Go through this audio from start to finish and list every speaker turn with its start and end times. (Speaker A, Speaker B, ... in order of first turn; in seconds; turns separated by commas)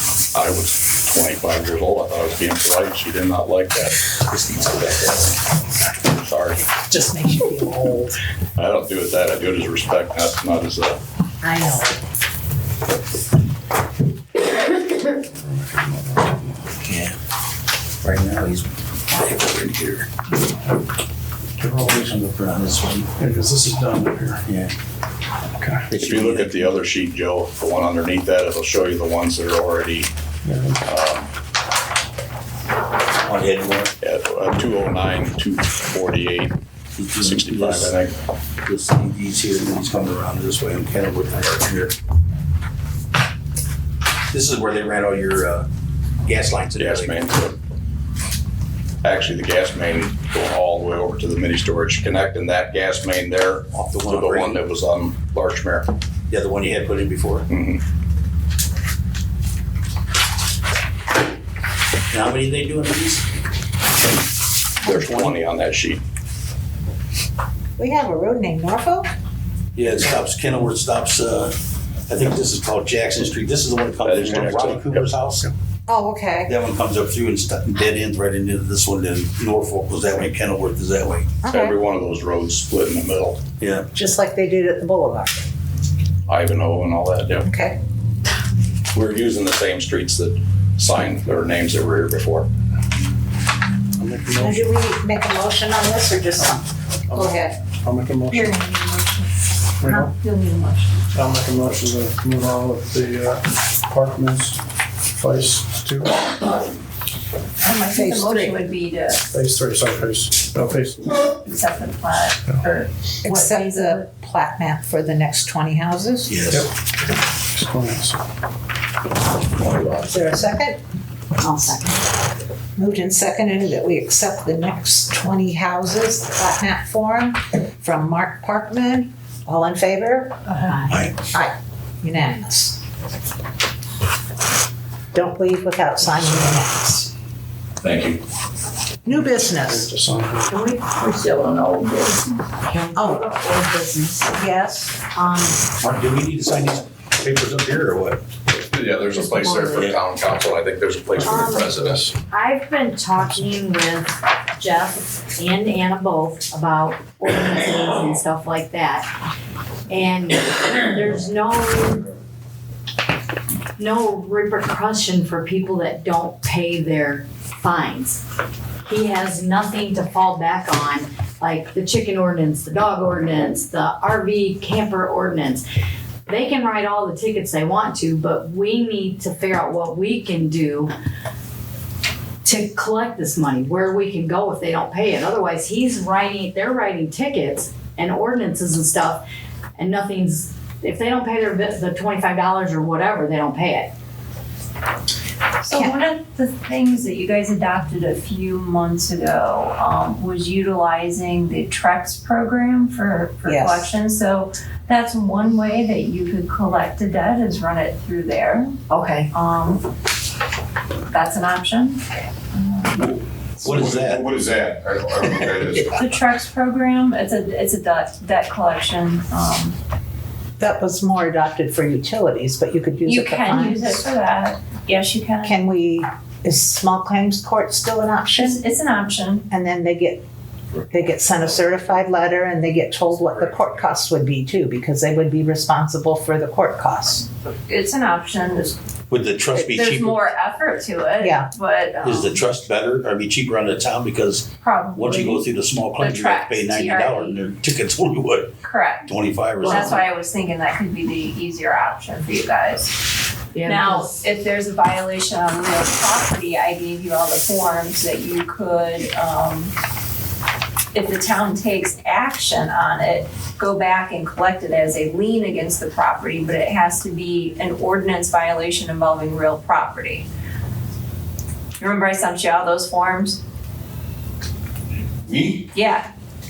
Speaker A: 0.3-4.0, Speaker B: 4.3-5.3, Speaker A: 6.1-6.6, Speaker C: 6.8-8.2, Speaker A: 8.6-11.0, Speaker C: 11.4-12.0, Speaker D: 15.4-16.5, Speaker B: 16.8-17.2, Speaker B: 18.0-18.7, Speaker A: 19.2-20.0, Speaker B: 21.6-23.1, Speaker D: 21.6-21.9, Speaker D: 23.2-24.4, Speaker B: 24.5-24.7, Speaker D: 25.6-25.9, Speaker B: 25.9-26.6, Speaker A: 25.9-30.1, Speaker D: 30.4-30.8, Speaker A: 30.8-31.3, Speaker B: 33.2-33.9, Speaker A: 34.0-36.6, Speaker B: 37.0-37.9, Speaker A: 37.2-38.1, Speaker B: 38.6-41.9, Speaker B: 44.3-45.7, Speaker B: 46.2-47.2, Speaker A: 46.8-47.6, Speaker A: 49.0-55.9, Speaker B: 53.8-54.6, Speaker B: 56.3-57.5, Speaker A: 57.5-57.8, Speaker B: 62.1-63.2, Speaker A: 64.8-66.0, Speaker B: 64.9-65.4, Speaker C: 67.8-69.1, Speaker B: 69.8-71.5, Speaker B: 72.1-75.5, Speaker A: 74.0-75.0, Speaker C: 75.9-76.5, Speaker B: 76.5-81.3, Speaker C: 81.4-81.8, Speaker A: 81.5-83.4, Speaker B: 83.6-83.9, Speaker C: 83.9-85.4, Speaker A: 86.3-87.5, Speaker C: 87.4-87.8, Speaker A: 88.9-92.5, Speaker D: 94.0-94.6, Speaker C: 94.3-97.5, Speaker D: 97.1-98.6, Speaker E: 98.3-100.9, Speaker D: 99.8-100.1, Speaker D: 101.1-104.6, Speaker D: 105.2-106.2, Speaker E: 107.6-109.2, Speaker C: 107.7-108.6, Speaker D: 109.3-111.1, Speaker E: 111.3-114.0, Speaker C: 113.2-116.3, Speaker B: 116.2-116.7, Speaker D: 117.5-118.2, Speaker C: 120.0-120.8, Speaker F: 121.4-122.0, Speaker C: 122.8-130.6, Speaker F: 130.5-131.0, Speaker B: 130.9-131.1, Speaker C: 131.3-132.8, Speaker C: 135.1-137.1, Speaker A: 137.8-138.2, Speaker C: 139.0-139.9, Speaker D: 139.1-140.5, Speaker F: 140.5-144.4, Speaker C: 142.9-143.2, Speaker C: 144.3-145.0, Speaker F: 145.1-145.6, Speaker B: 145.8-148.2, Speaker A: 148.5-152.1, Speaker F: 149.4-149.7, Speaker B: 149.7-150.0, Speaker F: 151.2-151.7, Speaker F: 152.3-159.1, Speaker F: 159.9-162.1, Speaker F: 163.8-168.2, Speaker F: 168.9-175.6, Speaker F: 176.3-180.9, Speaker F: 182.4-189.2, Speaker F: 189.8-193.9, Speaker E: 195.6-208.8, Speaker C: 195.7-195.9, Speaker C: 203.4-203.9, Speaker F: 208.9-209.3, Speaker E: 209.3-209.8, Speaker E: 211.1-213.0, Speaker B: 213.6-214.3, Speaker G: 213.7-215.8, Speaker E: 215.9-219.8, Speaker C: 220.6-224.0, Speaker E: 223.0-225.6, Speaker C: 225.4-228.6, Speaker E: 228.3-229.4, Speaker C: 229.5-230.2, Speaker C: 230.9-237.2, Speaker E: 237.4-238.8, Speaker B: 239.1-240.2, Speaker E: 239.5-242.4, Speaker C: 241.2-241.5, Speaker B: 242.0-248.5, Speaker E: 244.6-245.4, Speaker E: 246.0-247.4, Speaker E: 248.6-252.9, Speaker B: 249.1-250.0, Speaker F: 253.5-254.1, Speaker E: 253.6-259.7, Speaker E: 260.9-270.3, Speaker E: 271.8-273.4, Speaker G: 275.3-275.6, Speaker E: 275.7-276.1